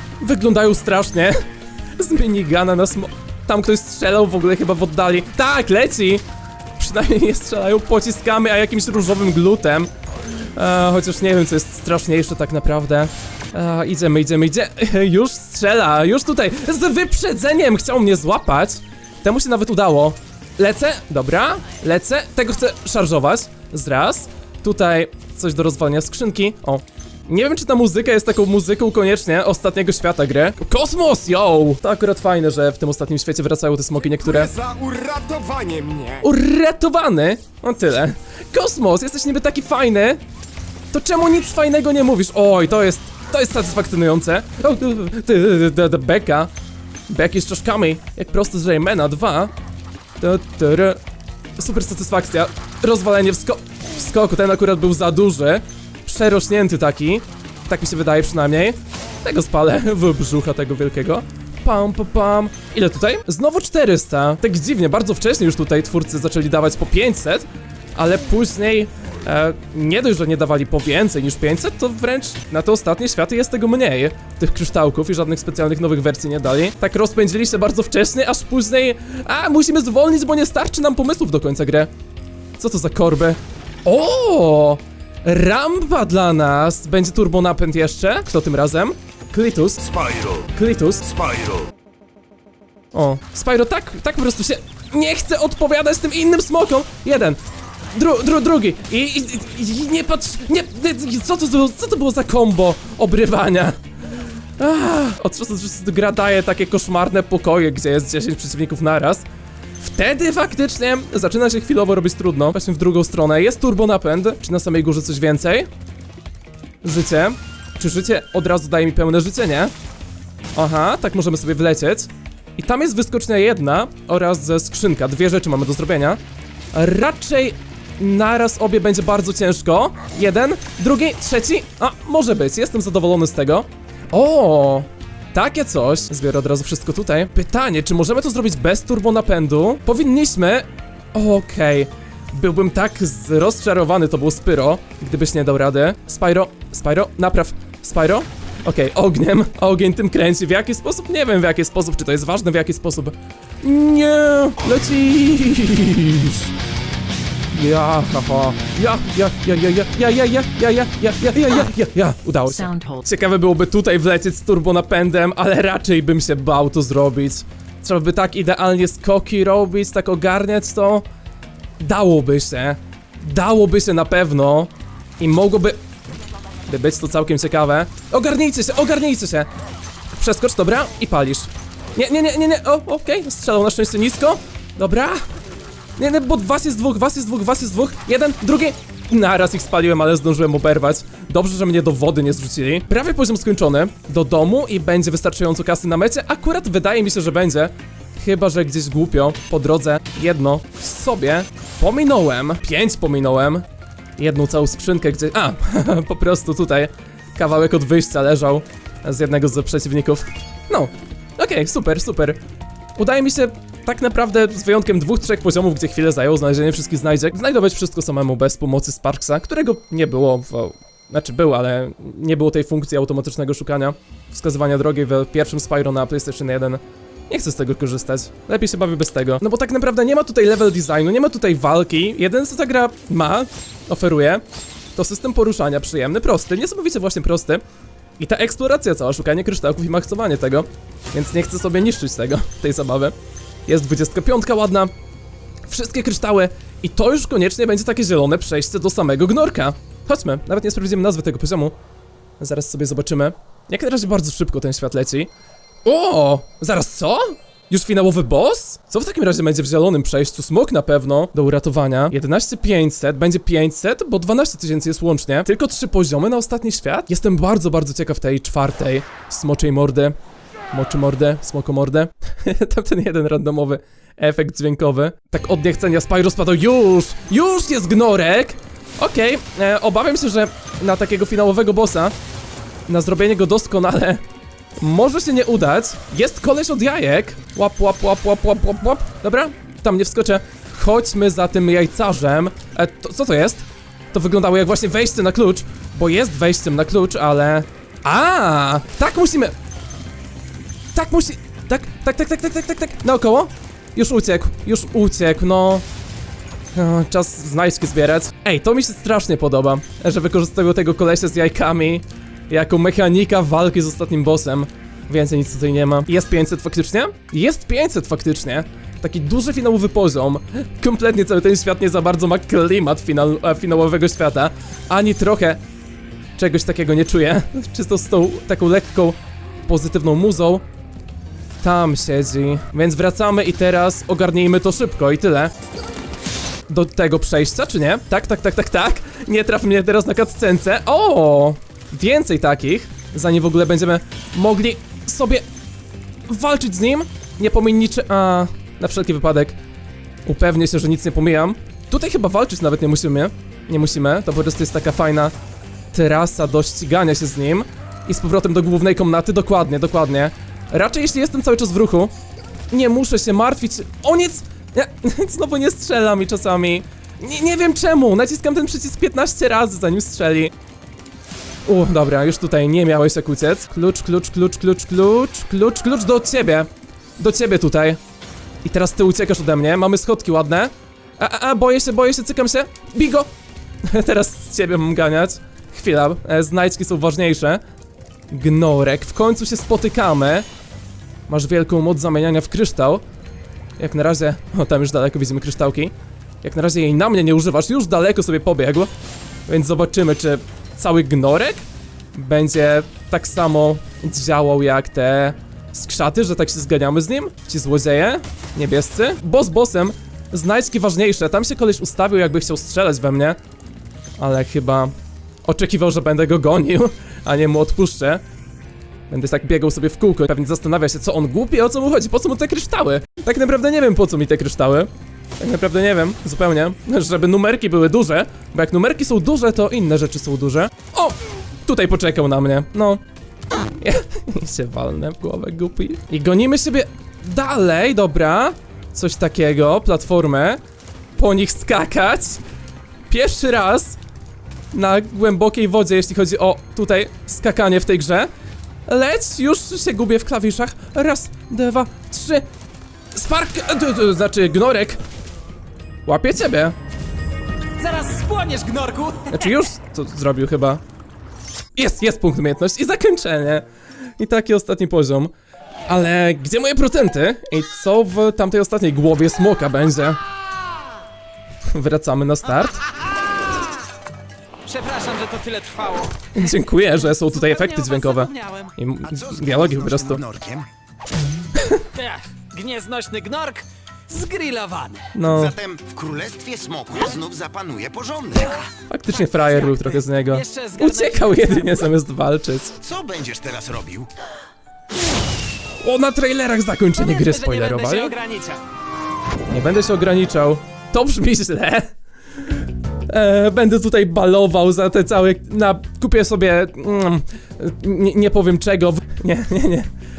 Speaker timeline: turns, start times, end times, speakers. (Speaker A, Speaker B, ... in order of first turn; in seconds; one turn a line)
Speaker A: 0.2-1.4
Speaker A: 2.0-6.2
Speaker A: 6.8-9.9
Speaker A: 10.6-34.5
Speaker B: 34.2-36.2
Speaker A: 36.2-40.2
Speaker A: 40.9-46.5
Speaker A: 47.1-49.5
Speaker A: 50.2-51.0
Speaker A: 51.6-81.9
Speaker A: 82.6-89.8
Speaker C: 89.8-90.5
Speaker A: 90.5-91.0
Speaker C: 91.0-91.7
Speaker A: 92.9-97.4
Speaker A: 97.9-109.2
Speaker A: 109.8-115.7
Speaker A: 116.8-119.7
Speaker A: 120.5-126.2
Speaker A: 126.7-156.5
Speaker A: 157.5-171.0
Speaker A: 171.8-175.8
Speaker A: 176.7-179.5
Speaker A: 180.1-185.2
Speaker A: 186.0-203.6
Speaker A: 204.2-212.4
Speaker A: 213.0-234.4
Speaker A: 234.9-237.6
Speaker A: 238.2-243.1
Speaker A: 243.7-244.9
Speaker A: 245.7-251.7
Speaker A: 252.4-255.3
Speaker A: 255.8-270.1
Speaker A: 270.7-282.1
Speaker A: 282.9-284.2
Speaker A: 284.8-299.5
Speaker A: 300.9-305.8
Speaker A: 306.7-325.6
Speaker A: 326.4-330.6
Speaker A: 331.6-335.5
Speaker A: 336.7-345.4
Speaker A: 346.3-349.6
Speaker A: 350.2-355.3
Speaker A: 355.9-362.1
Speaker A: 362.7-370.5
Speaker A: 371.6-376.7
Speaker A: 377.2-378.0
Speaker A: 378.6-383.3
Speaker A: 383.8-387.6
Speaker A: 388.3-390.4
Speaker A: 391.3-393.0
Speaker A: 393.8-398.9
Speaker A: 399.5-401.6
Speaker A: 402.1-413.4
Speaker A: 414.2-414.9
Speaker A: 415.4-418.2
Speaker A: 419.1-433.0
Speaker A: 433.8-440.6
Speaker A: 441.2-442.4
Speaker A: 443.1-444.0
Speaker A: 444.7-448.3
Speaker A: 448.9-452.4
Speaker A: 453.1-455.0
Speaker A: 456.1-456.7
Speaker D: 457.8-459.5
Speaker A: 459.3-460.8
Speaker A: 461.8-463.6
Speaker A: 464.2-465.3
Speaker A: 465.9-470.2
Speaker A: 471.7-472.8
Speaker D: 474.6-476.3
Speaker A: 476.3-480.2
Speaker D: 477.0-478.7
Speaker C: 479.0-480.6
Speaker A: 481.5-481.8
Speaker D: 481.9-485.1
Speaker A: 485.1-485.5
Speaker C: 485.3-488.6
Speaker A: 488.9-492.7
Speaker D: 489.1-491.8
Speaker C: 492.8-494.1
Speaker A: 495.8-498.1
Speaker D: 497.0-498.6
Speaker A: 499.5-509.9